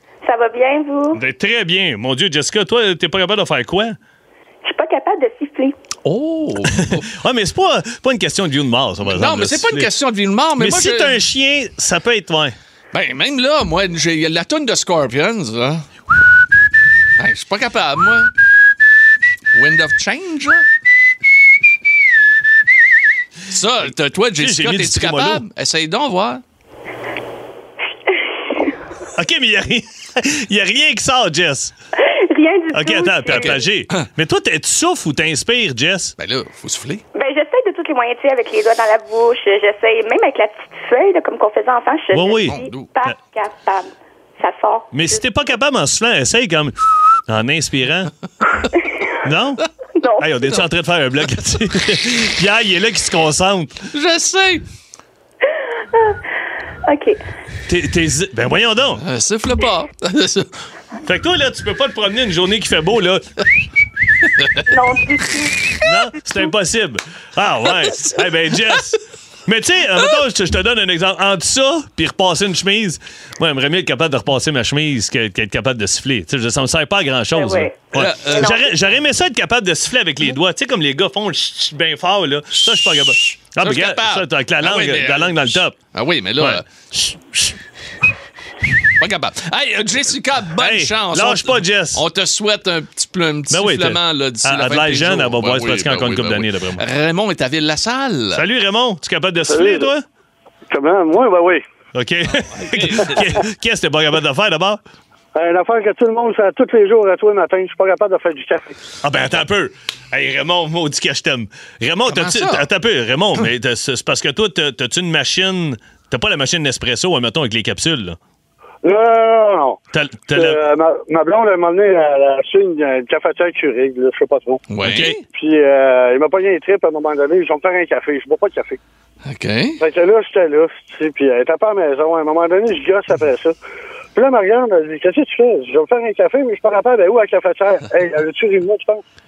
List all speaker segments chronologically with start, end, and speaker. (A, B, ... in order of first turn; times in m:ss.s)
0:00.2-0:01.2 A
0:01.1-0:04.0 B
0:04.6-0:05.7 A
0:06.0-0:07.1 C
0:06.7-0:09.9 B
0:09.1-0:11.2 C
0:10.6-0:12.5 B
0:12.9-0:15.9 C
0:17.2-0:18.3 C
0:19.5-0:20.6 C
0:23.5-0:26.4 C
0:24.4-0:25.4 B
0:29.1-0:31.7 B
0:32.1-0:33.5 A
0:32.7-0:36.1 B
0:33.3-0:34.1 C
0:36.2-0:37.0 C
0:37.1-0:43.9 A
0:42.1-0:42.6 B
0:42.4-0:42.9 C
0:44.4-0:45.0 A
0:44.9-0:46.8 B
0:47.3-0:48.1 B
0:49.2-0:49.6 B
0:50.0-0:50.4 A
0:50.2-0:53.8 B
0:53.9-0:54.6 C
0:56.9-0:57.2 A
0:57.7-0:59.0 B
0:59.0-1:00.5 C
1:01.0-1:03.2 B
1:04.7-1:05.7 A
1:05.4-1:05.8 C
1:05.8-1:25.8 B
1:07.7-1:08.8 C
1:17.4-1:17.7 A
1:17.9-1:18.6 C
1:22.8-1:26.7 C
1:26.4-1:27.6 B
1:28.9-1:38.4 C
1:30.6-1:32.0 B
1:33.5-1:36.8 B
1:38.3-1:40.0 B
1:39.5-1:39.8 D
1:40.7-1:41.6 D
1:41.9-1:44.8 B
1:42.3-1:43.4 C
1:45.3-1:48.8 D
1:49.0-1:58.2 B
1:52.1-1:52.7 C
1:58.8-1:59.8 D
1:59.9-2:00.6 B
2:00.3-2:04.6 D
2:04.7-2:05.2 C
2:04.8-2:05.2 B
2:05.3-2:08.8 D
2:09.3-2:09.8 C
2:09.8-2:13.5 D
2:14.1-2:19.0 D